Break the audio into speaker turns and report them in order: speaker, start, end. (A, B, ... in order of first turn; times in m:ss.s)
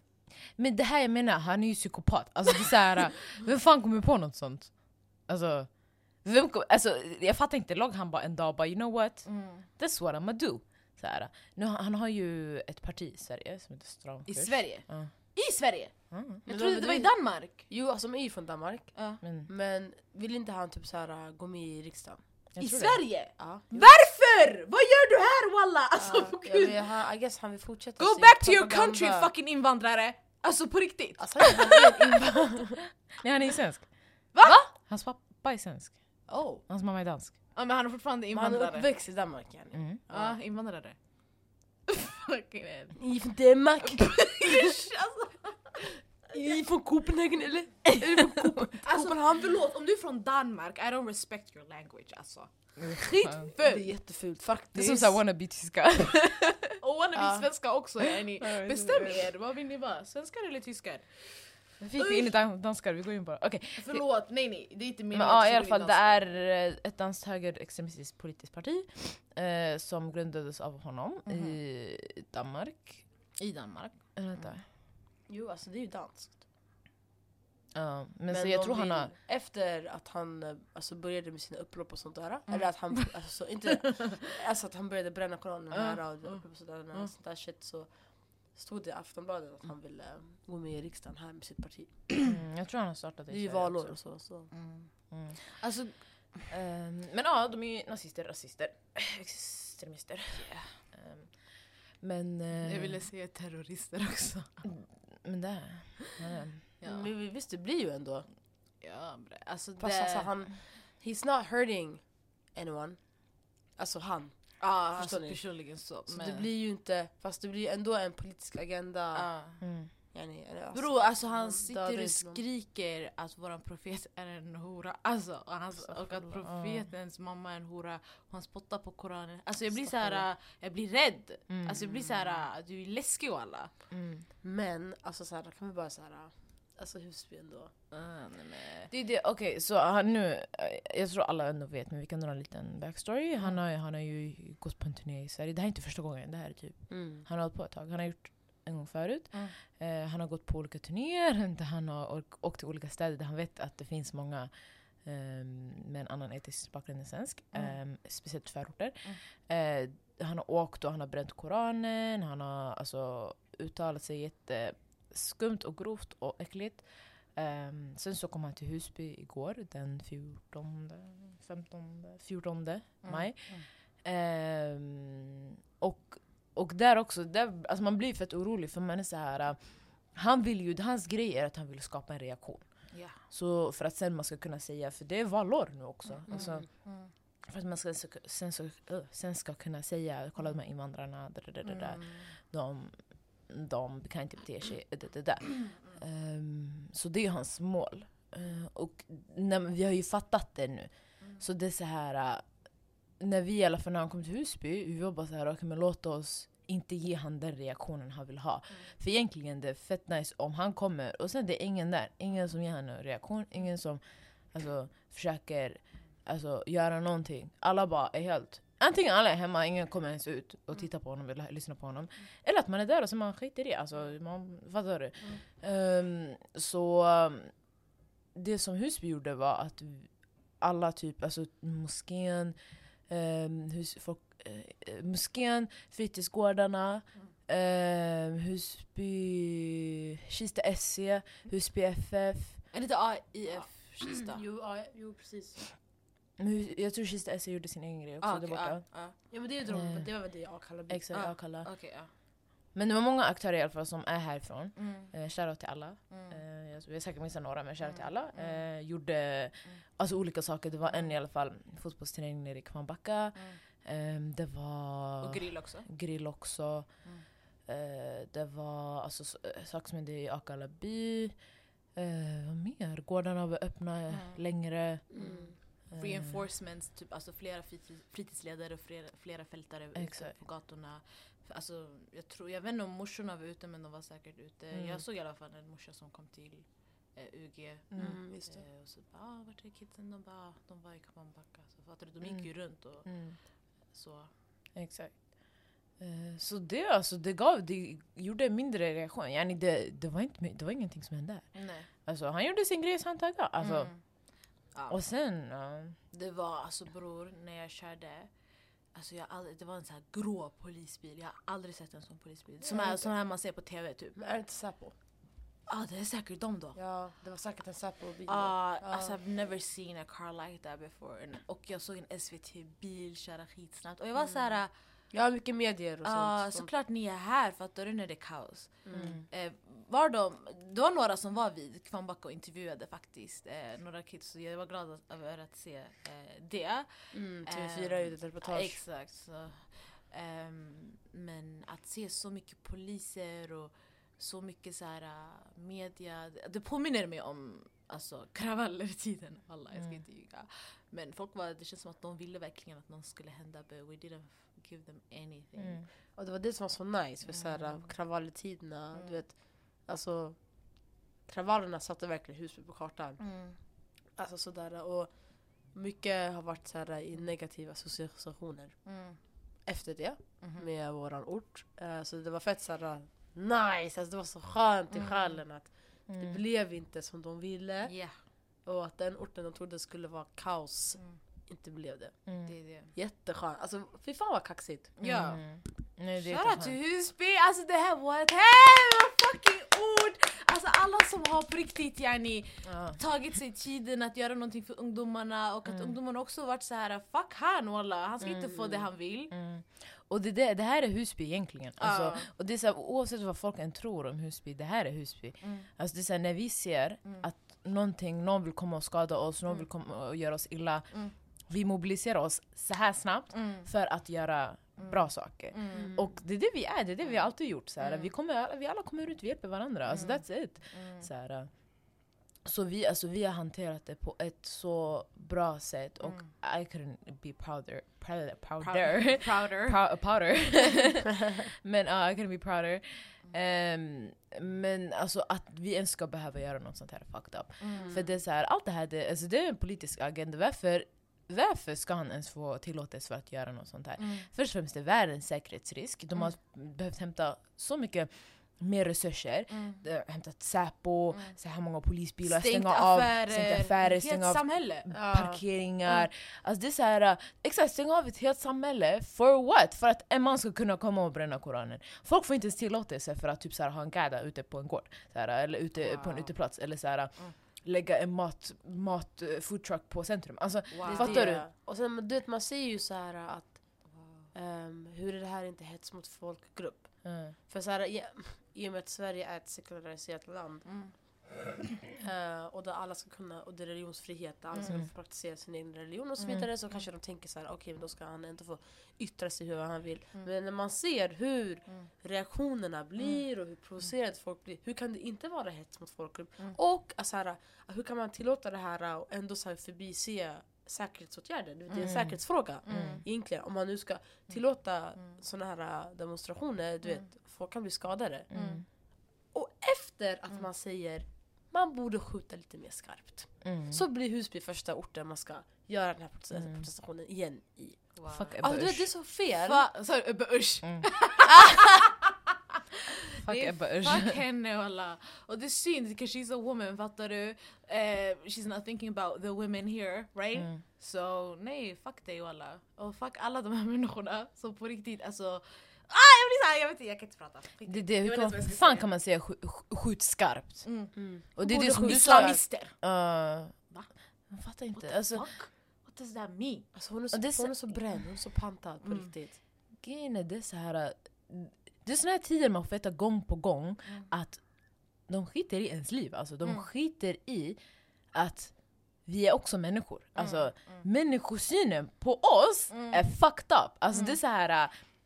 0:00.6-0:15.1 A
0:09.3-0:09.7 B
0:14.3-0:17.7 B
0:16.1-0:16.4 A
0:16.5-0:22.2 C
0:19.0-0:19.2 B
0:19.2-0:19.5 A
0:22.6-0:23.0 A
0:22.6-0:26.8 B
0:23.4-0:23.8 C
0:26.0-0:29.3 C
0:28.0-0:32.2 B
0:31.2-0:32.8 C
0:33.2-0:33.9 A
0:34.3-0:34.7 B
0:34.4-0:34.7 C
0:34.7-0:36.0 A
0:36.3-0:36.6 C
0:36.7-0:37.4 A
0:37.6-0:38.9 B
0:38.3-0:40.4 C
0:39.7-0:40.0 A
0:40.1-0:41.0 B
0:41.9-0:43.0 B
0:43.0-0:44.8 C
0:43.8-0:45.8 B
0:45.8-0:49.6 C
0:48.8-0:53.9 B
0:52.8-0:53.5 A
0:53.6-0:55.2 C
0:54.7-0:56.8 A
0:56.8-1:02.3 B
0:57.2-0:57.5 C
0:58.0-0:59.3 A
1:01.8-1:04.0 A
1:03.8-1:06.2 B
1:05.1-1:13.0 A
1:11.3-1:11.6 B
1:13.4-1:14.0 B
1:14.2-1:14.6 A
1:15.3-1:16.4 C
1:17.8-1:19.1 A
1:18.3-1:32.1 C
1:25.7-1:27.1 B
1:32.2-1:34.0 A
1:33.3-1:34.5 C
1:34.5-1:35.9 B
1:35.1-1:35.4 A
1:36.5-1:41.4 A
1:40.3-1:40.7 B
1:42.0-1:43.1 A
1:42.6-1:44.6 B
1:44.6-1:46.7 A
1:46.8-1:47.1 B
1:46.8-1:48.3 C
1:48.8-1:50.3 B
1:49.8-1:52.0 C
1:52.5-1:53.0 C
1:53.8-1:55.4 C
1:54.6-1:56.5 B
1:56.1-1:59.3 C
1:59.2-1:59.6 B
1:59.6-1:59.9 A
2:00.1-2:02.4 C
2:00.7-2:13.7 B
2:06.3-2:06.9 A
2:09.7-2:10.3 C
2:11.5-2:11.9 A
2:13.9-2:14.3 A
2:14.4-2:17.7 C
2:17.9-2:18.9 B
2:18.9-2:34.5 A
2:26.9-2:27.3 C
2:35.0-3:02.7 A
2:53.0-2:53.7 B
3:02.9-3:03.2 B
3:03.2-3:06.7 A
3:06.3-3:07.1 B
3:06.3-3:06.6 C
3:07.5-3:22.5 A
3:11.6-3:12.3 B
3:23.2-3:34.0 A
3:34.5-3:47.5 A
3:48.4-3:52.6 A
3:53.1-4:02.6 A
4:02.7-4:04.4 B
4:04.1-4:05.6 C
4:06.4-4:08.8 A
4:08.2-4:09.2 B
4:09.3-4:11.3 C
4:09.7-4:10.1 A
4:10.9-4:11.7 A
4:11.2-4:12.1 B
4:12.8-4:26.9 A
4:14.8-4:15.1 B
4:16.1-4:16.4 B
4:17.8-4:18.6 B
4:25.2-4:25.9 B
4:27.7-4:31.4 A
4:32.0-4:35.0 A
4:34.1-4:34.4 B
4:35.1-4:35.5 C
4:35.2-4:53.1 B
4:35.9-4:36.4 A
4:40.0-4:40.3 A
4:44.7-4:45.0 A
4:47.9-4:48.2 A
4:48.0-4:48.6 C
4:52.2-4:52.5 A
4:53.0-4:53.4 A
4:53.9-4:54.3 B
4:54.8-4:55.2 A
4:56.0-5:03.9 A
5:01.6-5:01.9 B
5:03.6-5:04.0 B
5:04.7-5:05.0 B
5:04.9-5:06.0 A
5:06.1-5:08.3 B
5:09.0-5:14.2 B
5:12.6-5:13.1 C
5:14.2-5:15.0 C
5:15.7-5:16.8 B
5:16.8-5:19.2 C
5:18.3-5:24.7 B
5:25.1-5:26.7 C
5:26.0-5:36.9 B
5:28.9-5:29.2 C
5:37.1-5:38.8 C
5:37.5-5:55.8 B
5:55.6-5:55.9 A
5:56.2-6:00.4 C
6:01.3-6:03.2 C
6:03.2-6:03.6 B
6:04.2-6:08.8 C
6:08.9-6:09.2 B
6:09.7-6:17.9 C
6:10.4-6:10.7 B
6:15.0-6:15.2 B
6:16.1-6:16.4 A
6:17.9-6:18.1 B
6:18.6-6:22.2 C
6:22.3-6:22.5 A
6:22.5-6:22.9 B
6:22.9-6:24.9 C
6:25.0-6:25.4 B
6:25.0-6:26.8 A
6:26.2-6:39.3 B
6:32.7-6:33.0 A
6:38.5-6:38.8 C
6:39.3-6:50.9 A
6:41.8-6:42.3 B
6:45.4-6:45.7 B
6:51.5-7:01.5 A
6:53.3-6:53.7 B
6:54.8-6:56.0 B
6:55.7-6:56.1 C
6:57.8-6:58.1 B
6:59.9-7:01.1 B
7:02.4-7:51.4 A
7:06.0-7:06.3 B
7:08.6-7:09.8 B
7:17.6-7:18.0 B
7:24.0-7:24.3 B
7:29.5-7:29.8 B
7:32.2-7:34.9 B
7:34.9-7:35.4 C
7:46.0-7:46.3 C
7:50.7-7:51.4 B
7:50.8-8:00.7 C
7:57.0-7:57.4 A
8:00.7-8:00.9 B
8:02.0-8:28.3 C
8:21.8-8:22.0 B
8:21.8-8:22.2 A
8:22.6-8:23.0 B
8:22.7-8:23.0 A
8:28.3-8:28.6 A
8:28.3-8:28.6 B
8:29.3-8:37.8 C
8:33.4-8:33.8 A
8:36.4-8:36.6 A
8:38.0-8:38.4 B
8:38.1-8:38.9 A
8:38.4-8:39.7 C
8:39.4-8:42.2 B
8:40.6-8:41.7 A
8:42.8-8:58.9 B
8:43.2-8:44.2 A
8:50.4-8:50.6 A
8:57.7-9:00.7 A
9:00.6-9:00.9 B
9:01.0-9:02.4 C
9:01.4-9:03.6 A
9:01.5-9:02.8 B
9:04.3-9:05.3 A
9:04.7-9:06.8 B
9:06.8-9:09.4 C
9:07.1-9:07.8 A
9:09.8-9:14.4 A
9:15.1-9:17.6 A
9:18.1-9:18.5 A
9:19.0-9:24.7 A
9:20.2-9:20.8 B
9:22.7-9:23.0 B
9:23.9-9:24.2 B